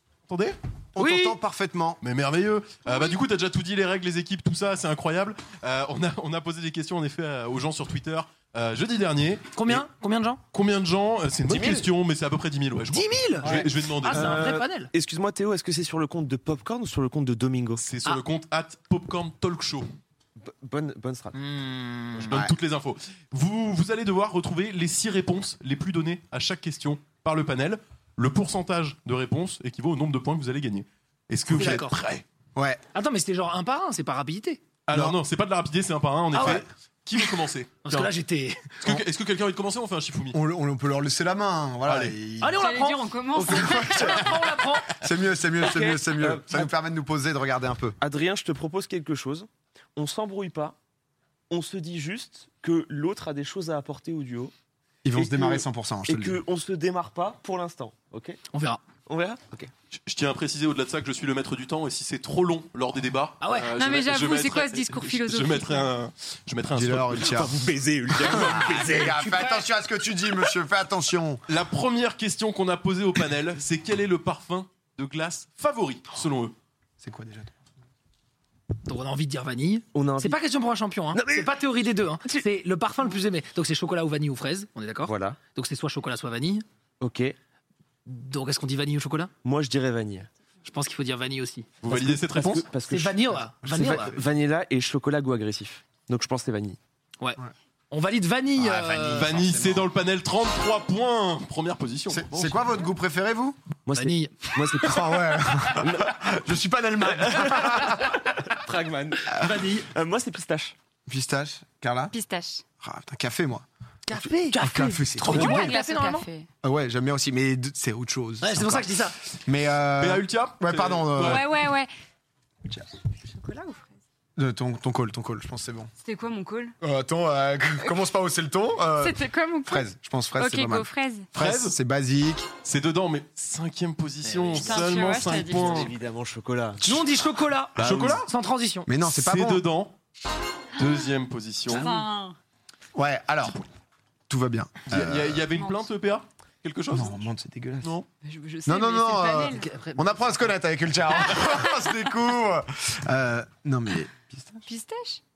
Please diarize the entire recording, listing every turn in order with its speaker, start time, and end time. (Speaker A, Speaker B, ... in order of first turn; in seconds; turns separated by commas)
Speaker A: 0.3-0.6, Speaker B: 0.9-2.0, Speaker C: 1.0-1.4, Speaker A: 2.0-9.8, Speaker C: 9.5-10.4, Speaker A: 10.5-14.5, Speaker D: 11.5-11.9, Speaker C: 12.9-14.9, Speaker B: 13.4-13.7, Speaker D: 13.4-17.8, Speaker A: 17.8-19.9, Speaker D: 20.4-21.4, Speaker C: 21.3-22.4, Speaker A: 22.3-32.2, Speaker B: 22.3-22.6, Speaker B: 31.5-31.8, Speaker C: 31.5-32.0, Speaker B: 32.5-32.8, Speaker C: 32.9-34.6, Speaker A: 34.9-38.1, Speaker B: 34.9-35.2, Speaker C: 36.3-36.6, Speaker C: 37.8-38.7, Speaker A: 38.8-40.4, Speaker B: 40.3-42.6, Speaker A: 41.9-42.2, Speaker C: 42.4-45.0, Speaker E: 42.5-44.4, Speaker B: 43.5-48.0, Speaker D: 45.6-46.7, Speaker D: 48.0-50.8, Speaker D: 51.5-54.5, Speaker B: 55.0-56.4, Speaker D: 55.1-58.4, Speaker C: 58.5-58.8, Speaker D: 59.1-59.7, Speaker A: 59.9-67.4, Speaker C: 63.4-63.7, Speaker E: 63.6-65.9, Speaker B: 66.7-67.5, Speaker D: 67.2-69.3, Speaker B: 68.2-71.4, Speaker C: 68.6-69.7, Speaker A: 71.5-76.5, Speaker B: 77.0-77.5, Speaker C: 78.8-86.6, Speaker D: 79.9-80.4, Speaker D: 81.1-81.6, Speaker D: 85.0-85.4, Speaker D: 87.0-87.3, Speaker C: 88.0-89.3, Speaker D: 89.4-90.3, Speaker C: 90.6-91.7, Speaker A: 91.8-92.7, Speaker D: 91.8-96.8, Speaker C: 92.9-94.1, Speaker B: 93.6-94.2, Speaker C: 97.2-99.3, Speaker B: 98.5-99.9, Speaker A: 99.1-102.6, Speaker B: 102.1-103.6, Speaker D: 103.8-106.3, Speaker C: 104.0-104.6, Speaker B: 104.8-108.1, Speaker D: 107.1-110.8, Speaker C: 109.3-109.9, Speaker B: 111.1-112.1, Speaker E: 112.1-112.6, Speaker B: 112.8-113.6, Speaker C: 114.1-116.3, Speaker D: 114.1-115.2, Speaker B: 114.5-115.7, Speaker A: 115.2-115.6, Speaker E: 115.2-116.5, Speaker B: 116.6-121.5, Speaker C: 118.4-119.2, Speaker A: 120.0-121.5, Speaker E: 121.2-121.9, Speaker E: 123.2-123.9, Speaker B: 124.3-125.9, Speaker E: 126.0-126.7, Speaker B: 126.8-132.5, Speaker E: 129.0-131.3, Speaker A: 131.3-131.8, Speaker A: 132.6-135.9, Speaker C: 134.2-134.8, Speaker E: 134.6-135.9, Speaker D: 135.2-137.2, Speaker C: 136.8-138.9, Speaker A: 137.8-138.2, Speaker B: 138.8-139.6, Speaker A: 139.1-139.9, Speaker A: 140.8-141.9, Speaker C: 141.7-142.1, Speaker E: 141.7-142.3, Speaker B: 142.9-143.6, Speaker B: 144.3-145.4, Speaker A: 144.9-147.2, Speaker E: 145.5-145.8, Speaker B: 146.9-147.9, Speaker E: 148.2-149.7, Speaker B: 148.7-154.6, Speaker C: 149.5-150.3, Speaker E: 154.7-155.2